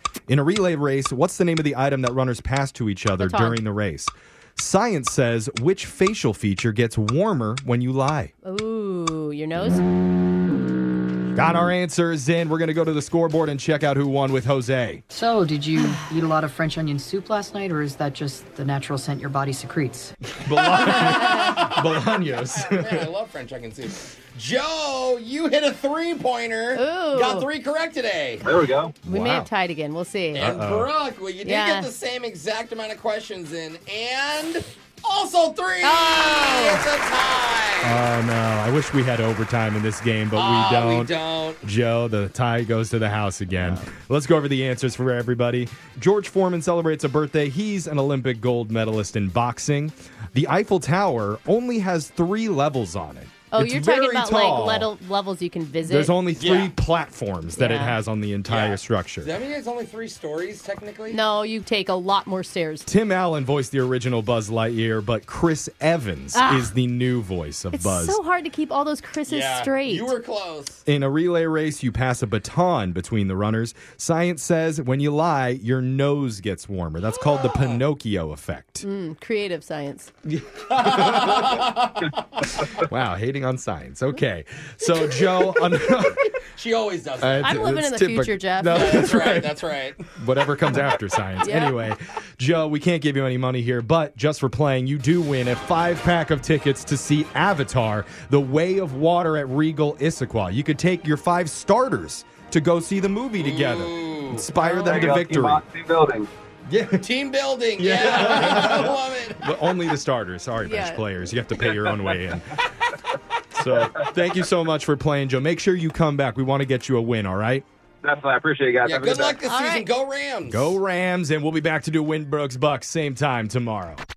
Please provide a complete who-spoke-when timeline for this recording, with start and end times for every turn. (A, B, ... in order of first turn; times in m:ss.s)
0:00.3-0:08.3 A
0:03.2-0:03.6 B
0:08.4-0:09.8 B
0:11.4-0:15.0 A
0:15.1-0:20.2 C
0:20.4-0:23.1 A
0:20.5-0:28.5 D
0:26.7-0:27.5 B
0:28.4-0:29.0 E
0:29.0-0:30.5 B
0:29.0-0:29.5 A
0:30.3-0:38.0 D
0:30.4-0:30.9 A
0:31.4-0:31.9 B
0:35.8-0:36.9 B
0:37.8-0:54.9 A
0:40.4-0:41.6 D
0:53.5-0:56.2 B
0:55.8-0:59.3 A
0:56.4-0:56.7 D
0:57.6-0:58.0 B
0:58.5-1:01.2 D
1:01.1-1:02.9 B
1:02.9-1:08.2 A
1:06.3-1:06.7 B
1:07.7-1:10.2 B
1:09.3-1:10.8 D
1:10.9-1:18.9 A
1:17.5-1:17.8 D
1:18.8-1:20.1 B
1:20.5-1:22.6 D
1:20.8-1:21.5 A
1:22.8-1:26.3 A
1:26.5-1:27.6 D
1:27.2-1:45.6 A
1:27.4-1:29.2 B
1:28.7-1:30.1 D
1:31.4-1:31.9 B
1:43.4-1:44.5 D
1:44.6-1:45.1 B
1:44.7-1:46.3 E
1:46.7-1:47.1 A
1:47.0-1:49.5 D
1:47.8-1:52.5 A
1:50.6-1:51.0 B
1:51.6-1:52.2 D
1:53.5-1:57.6 A
1:58.0-1:59.4 E
1:58.8-2:00.7 D
1:59.4-1:59.9 B
2:00.5-2:04.0 A